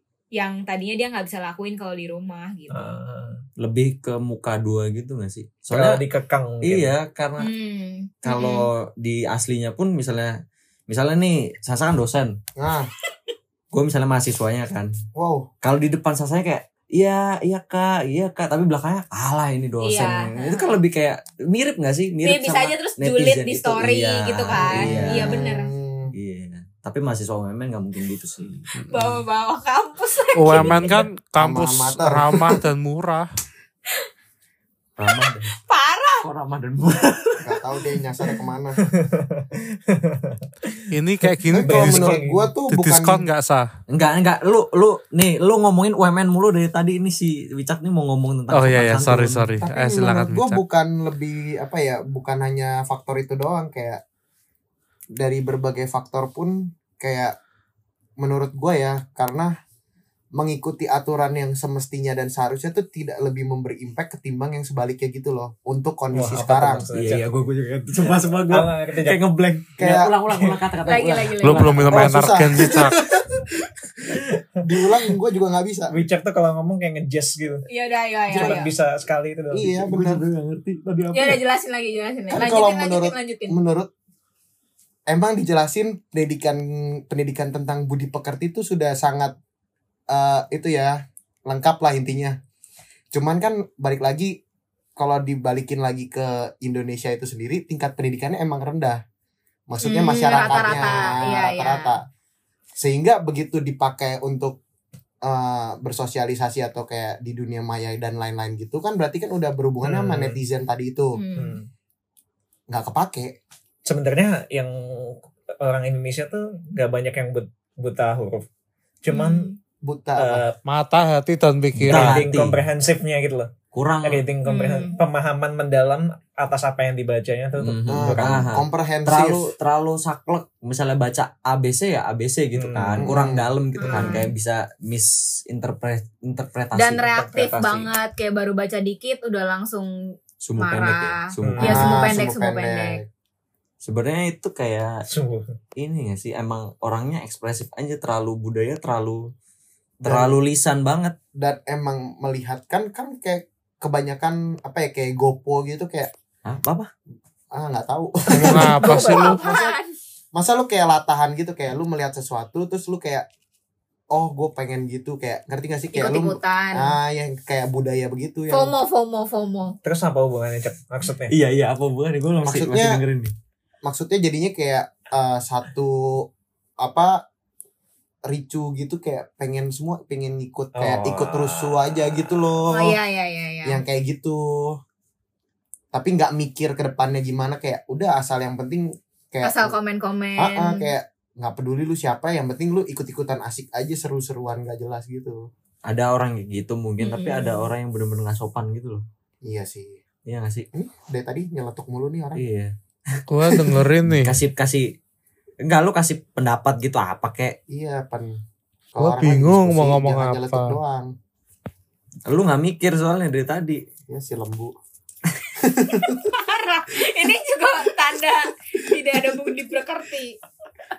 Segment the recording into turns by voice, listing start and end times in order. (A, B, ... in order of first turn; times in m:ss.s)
0:00.3-0:02.9 A
0:02.7-0:03.4 B
0:03.6-0:06.0 C
0:05.7-0:06.9 B
0:06.6-0:07.5 C
0:07.4-0:08.7 A
0:08.2-0:10.4 C
0:10.9-0:12.4 C
0:12.6-0:12.9 D
0:13.7-0:14.9 C
0:15.1-0:15.5 D
0:15.6-0:25.5 C
0:19.8-0:20.8 A
0:22.2-0:25.7 A
0:24.6-0:26.1 D
0:26.1-0:29.0 C
0:28.9-0:31.0 A
0:30.4-0:33.3 E
0:31.4-0:32.5 D
0:35.0-0:35.5 C
0:35.5-0:36.3 A
0:36.2-0:37.6 C
0:37.4-0:38.8 D
0:38.8-0:40.8 B
0:40.9-0:42.2 E
0:41.5-0:43.2 D
0:41.6-0:42.5 B
0:42.7-0:43.7 E
0:43.9-0:49.5 C
0:48.5-0:50.6 E
0:49.6-0:54.0 D
0:55.2-0:57.4 D
0:58.2-0:59.5 D
1:00.3-1:06.8 D
1:06.1-1:07.3 B
1:06.9-1:12.2 C
1:08.0-1:09.2 B
1:09.8-1:10.2 D
1:10.3-1:10.6 B
1:10.8-1:11.8 A
1:11.4-1:12.9 E
1:11.9-1:14.0 D
1:14.6-1:16.0 D
1:15.9-1:17.7 B
1:17.7-1:18.7 A
1:18.3-1:19.7 B
1:18.3-1:18.6 D
1:19.5-1:20.2 D
1:19.6-1:21.4 C
1:21.1-1:23.6 A
1:22.3-1:23.9 D
1:25.1-1:29.3 D
1:30.1-1:32.4 D
1:33.1-1:34.4 D
1:35.0-1:39.0 D
1:39.7-1:42.0 D
1:39.8-1:42.0 A
1:40.3-1:41.2 B
1:42.8-1:44.6 D
1:45.2-1:51.2 D
1:49.8-1:50.4 B
1:51.1-1:51.6 A
1:51.3-1:51.7 B
1:52.7-1:53.4 D
1:53.8-1:58.4 B
1:59.0-1:59.5 B
1:59.1-1:59.6 A
1:59.8-2:00.4 D
2:00.2-2:00.6 B
2:00.6-2:02.2 E
2:01.7-2:02.6 C
2:01.8-2:03.5 B
2:03.7-2:04.2 C
2:04.0-2:08.4 B
2:04.4-2:05.0 A
2:07.6-2:17.5 C
2:07.9-2:09.5 D
2:12.5-2:13.1 B
2:13.0-2:13.5 D
2:13.8-2:14.3 A
2:13.8-2:14.3 B
2:16.7-2:23.0 A
2:17.2-2:17.8 B
2:20.4-2:22.1 C
2:21.4-2:21.9 B
2:21.6-2:23.0 D
2:23.8-2:25.0 C
2:25.1-2:25.5 B
2:25.8-2:29.3 C
2:30.0-2:31.2 C
2:30.0-2:30.4 D
2:31.4-2:36.1 D
2:36.4-2:36.9 C
2:37.5-2:39.8 D
2:38.3-2:39.4 E
2:38.5-2:39.9 A
2:40.3-2:43.2 D
2:44.1-2:48.8 D
2:45.9-2:47.0 A
2:48.5-2:49.8 A
2:49.8-2:51.3 B
2:51.3-2:53.3 C
2:52.4-2:53.0 D
2:53.8-2:56.3 D
2:56.8-2:57.2 D
2:58.3-3:03.0 D
3:00.7-3:02.5 B
3:02.7-3:03.8 A
3:03.6-3:04.8 D
3:05.9-3:09.8 D
3:09.4-3:10.9 A
3:10.4-3:15.5 D
3:15.8-3:19.0 C
3:17.0-3:17.7 A
3:19.4-3:20.0 D
3:20.2-3:20.7 C
3:20.7-3:22.4 D
3:22.3-3:24.9 C
3:23.3-3:24.4 E
3:25.6-3:27.6 C
3:27.7-3:28.4 D
3:28.9-3:31.1 D
3:29.0-3:30.8 E
3:32.2-3:33.8 C
3:34.1-3:34.7 D
3:35.6-3:36.3 D
3:35.9-3:40.4 A